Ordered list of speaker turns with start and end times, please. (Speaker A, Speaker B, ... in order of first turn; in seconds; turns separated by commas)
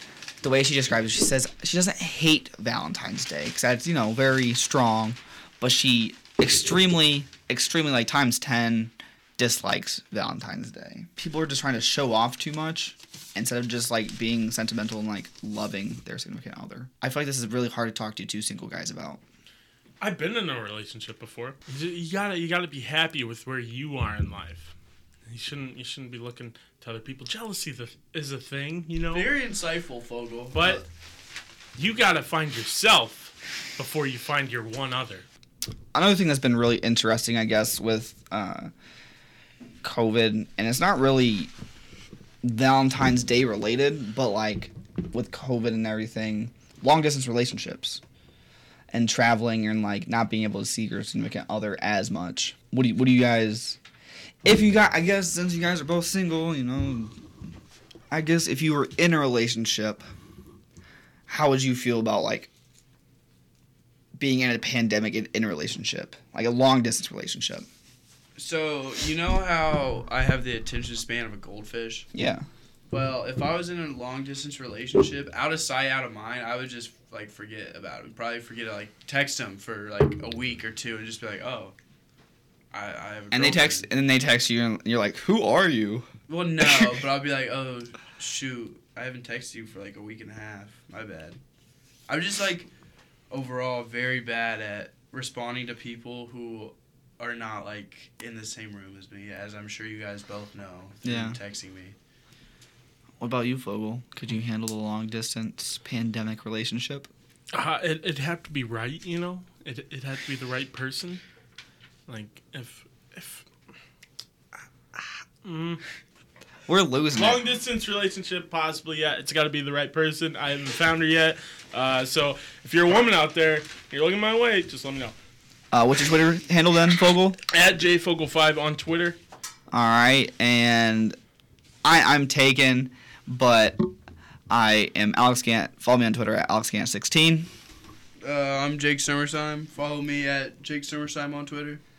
Speaker A: 0.4-19.2, Speaker B: 20.0-24.7, Speaker B: 25.3-29.3, Speaker C: 29.1-30.8, Speaker B: 30.5-30.8, Speaker B: 31.8-35.2, Speaker A: 35.9-38.7, Speaker A: 39.8-41.5, Speaker A: 42.4-48.0, Speaker A: 48.9-53.8, Speaker A: 54.4-57.1, Speaker A: 58.1-60.0, Speaker A: 61.3-62.5, Speaker A: 64.2-67.7, Speaker C: 68.3-72.1, Speaker A: 72.1-72.4, Speaker C: 72.9-81.7, Speaker C: 82.7-83.9, Speaker A: 83.3-86.1, Speaker C: 86.3-91.4, Speaker C: 92.1-92.7, Speaker C: 93.3-102.0, Speaker A: 101.0-101.4, Speaker A: 103.2-107.1, Speaker B: 107.5-111.2, Speaker B: 112.1-113.5, Speaker B: 114.9-115.8, Speaker A: 116.7-117.4, Speaker B: 117.1-125.1, Speaker A: 125.7-127.4, Speaker B: 127.5-129.2, Speaker A: 129.7-131.2, Speaker A: 131.8-133.8, Speaker A: 134.5-137.5, Speaker C: 138.2-141.8